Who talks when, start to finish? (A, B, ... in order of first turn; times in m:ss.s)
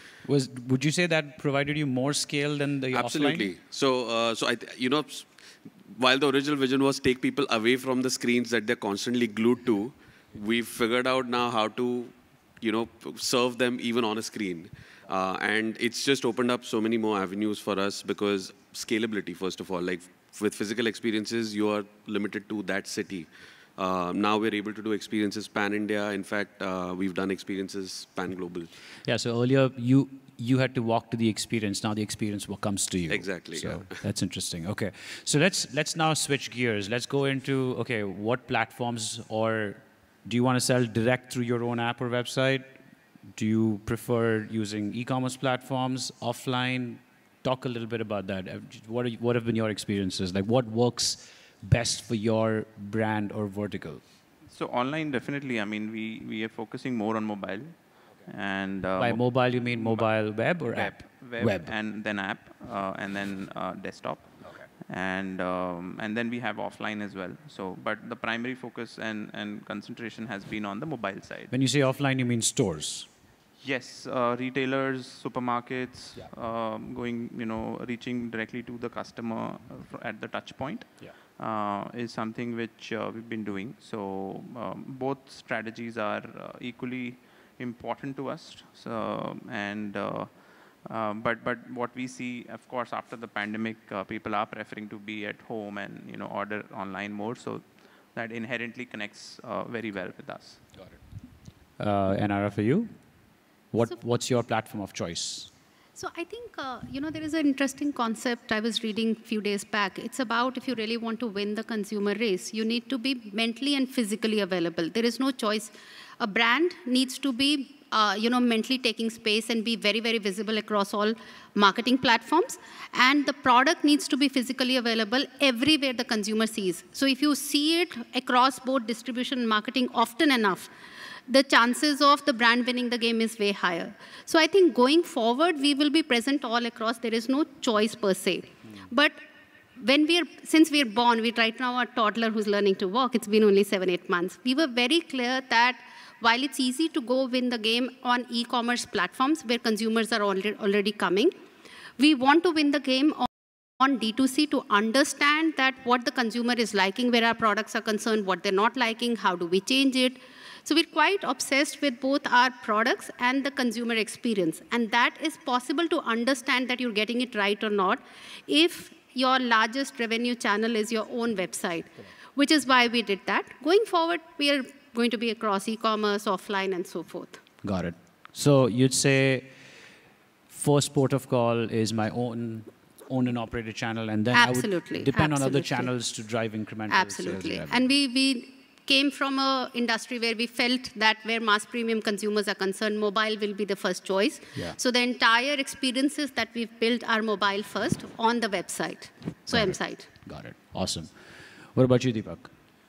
0:00.2-0:03.5 A
0:02.9-0:28.7 B
0:29.0-0:42.8 A
0:33.1-0:34.0 B
0:43.3-0:54.0 A
0:54.5-1:00.1 C
0:59.0-1:01.7 A
1:00.8-1:11.5 C
1:11.5-1:13.1 A
1:13.6-1:40.6 C
1:41.8-1:43.0 A
1:43.7-1:45.5 A
1:46.0-2:10.7 D
2:11.3-2:19.2 D
2:19.8-2:31.3 D
2:32.0-2:57.4 D
2:57.6-2:59.8 A
3:00.5-3:07.8 A
3:04.3-3:05.9 D
3:06.9-3:20.1 D
3:19.5-3:22.5 A